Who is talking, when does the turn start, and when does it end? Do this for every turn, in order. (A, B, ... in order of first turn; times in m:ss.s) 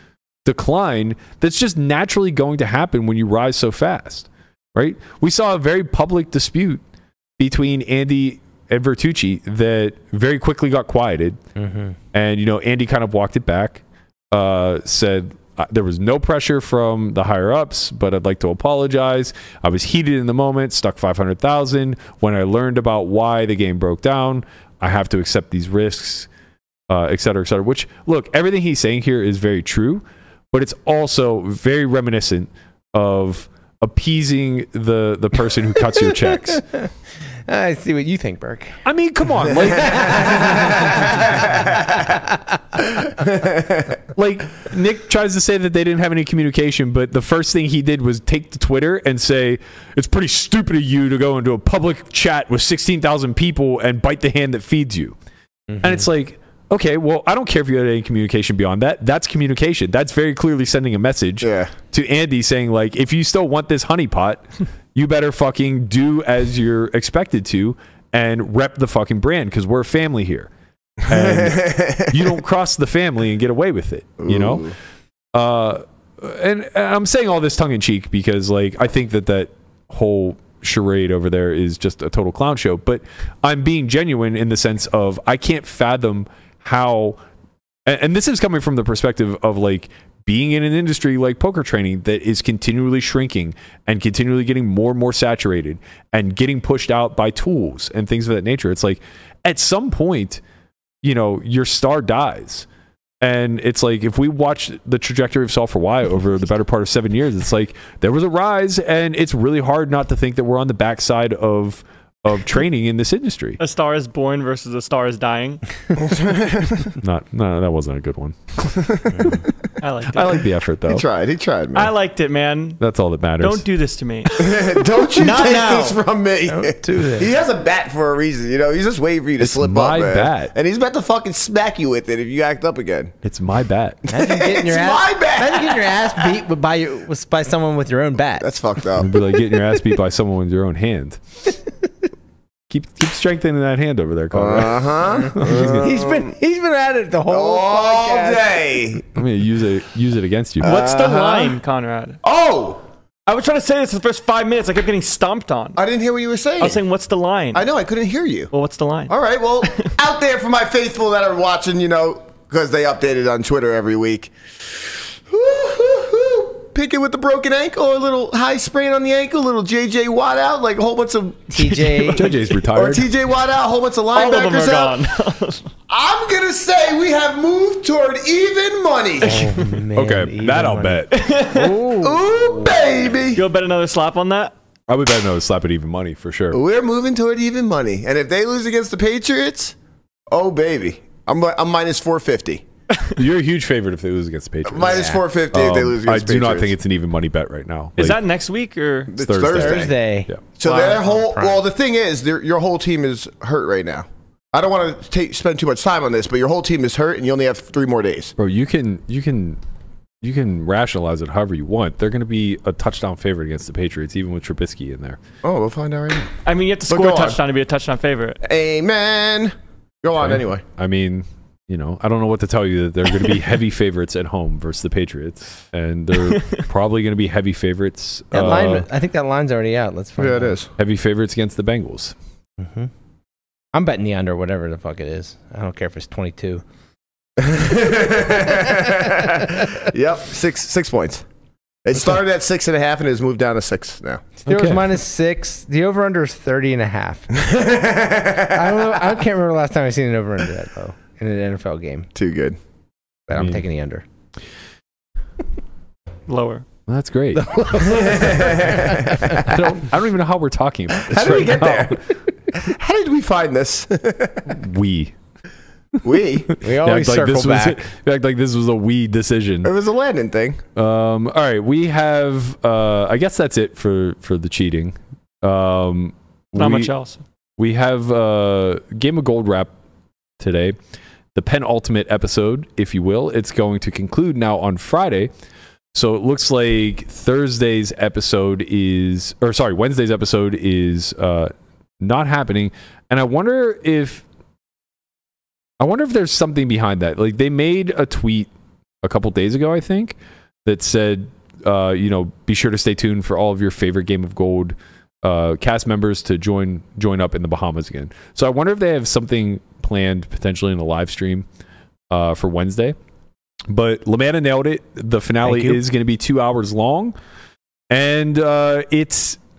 0:00.4-0:06.8 A
0:07.4-0:11.4 A
0:11.6-0:12.0 B
0:12.1-0:26.3 A
0:26.9-0:36.6 A
0:36.2-0:36.9 B
0:37.5-0:38.8 B
0:38.8-0:41.2 A
0:39.8-0:41.3 B
0:43.2-0:43.9 C
0:44.1-0:55.1 A
0:55.7-0:56.0 B
0:55.8-1:10.5 A
1:01.4-1:01.7 C
1:11.1-1:14.7 A
1:11.1-1:12.2 C
1:14.2-1:14.7 C
1:15.3-1:27.2 A
1:27.8-1:40.4 A
1:41.0-1:42.7 A
1:43.2-1:53.6 A
1:53.6-1:55.6 D
1:56.0-1:56.9 C
1:57.0-1:59.3 A
1:59.8-2:00.4 D
2:00.1-2:01.0 A
2:00.9-2:01.9 C
2:01.7-2:02.8 D
2:02.8-2:03.6 A
2:03.4-2:06.0 D
2:04.4-2:13.1 C
2:06.5-2:07.3 B
2:09.4-2:10.5 A
2:13.2-2:14.0 A
2:14.1-2:16.3 C
2:14.1-2:18.5 B
2:18.4-2:19.1 C
2:19.0-2:21.2 A
2:22.7-2:25.9 A
2:24.3-2:26.3 C
2:25.7-2:28.6 B
2:27.3-2:29.1 C
2:29.1-2:30.8 A
2:30.6-2:31.6 C
2:30.6-2:32.2 D
2:32.2-2:32.8 C
2:33.3-2:35.8 D
2:35.8-2:36.8 C
2:36.6-2:37.6 D
2:37.5-2:38.5 C
2:38.5-2:39.9 D
2:39.1-2:44.3 C
2:45.3-2:51.5 C
2:51.5-2:52.2 B
2:51.8-2:52.3 D
2:52.1-2:53.1 A
2:52.7-2:55.0 C
2:54.1-2:55.7 D
2:55.9-2:59.6 C
2:59.2-3:02.6 B
2:59.9-3:01.2 A
3:01.1-3:01.8 D
3:02.0-3:03.4 C
3:03.3-3:04.5 D
3:04.9-3:06.6 A
3:06.5-3:09.7 C
3:10.3-3:12.6 C
3:13.2-3:18.2 A
3:14.6-3:16.7 C
3:14.8-3:15.2 B
3:18.0-3:19.1 D
3:19.1-3:19.9 C
3:19.2-3:20.4 A
3:19.4-3:21.6 B
3:20.6-3:28.3 C
3:20.6-3:21.1 D
3:28.4-3:29.6 A
3:30.2-3:35.2 A
3:35.4-3:36.3 C
3:36.4-3:38.4 D
3:36.9-3:37.4 C
3:38.4-3:40.6 C
3:40.2-3:48.8 A
3:48.3-3:50.6 B
3:50.2-3:50.7 C
3:50.8-3:52.1 A
3:52.6-3:52.9 B
3:53.7-3:56.6 B
3:57.4-4:01.2 C
4:01.8-4:04.3 C
4:04.4-4:07.3 B
4:04.5-4:04.9 A
4:07.4-4:08.9 C
4:08.5-4:12.1 B
4:12.1-4:12.6 C
4:13.3-4:14.0 B
4:13.3-4:13.6 A
4:16.3-4:16.6 D
4:16.9-4:17.8 A
4:17.4-4:19.5 B
4:17.7-4:19.3 C
4:19.2-4:22.0 A
4:21.0-4:24.5 C
4:24.5-4:25.1 A
4:26.0-4:26.6 C
4:26.6-4:27.8 B
4:26.6-4:29.7 A
4:29.6-4:30.6 C
4:30.8-4:36.9 A
4:36.5-4:37.2 D
4:37.6-4:39.7 A
4:40.4-4:40.8 A
4:41.3-4:45.3 A
4:45.9-4:54.2 A
4:55.8-4:58.5 A
4:59.0-5:11.4 A
5:12.1-5:13.0 A
5:13.7-5:17.1 A
5:15.4-5:15.8 B
5:17.9-5:19.4 A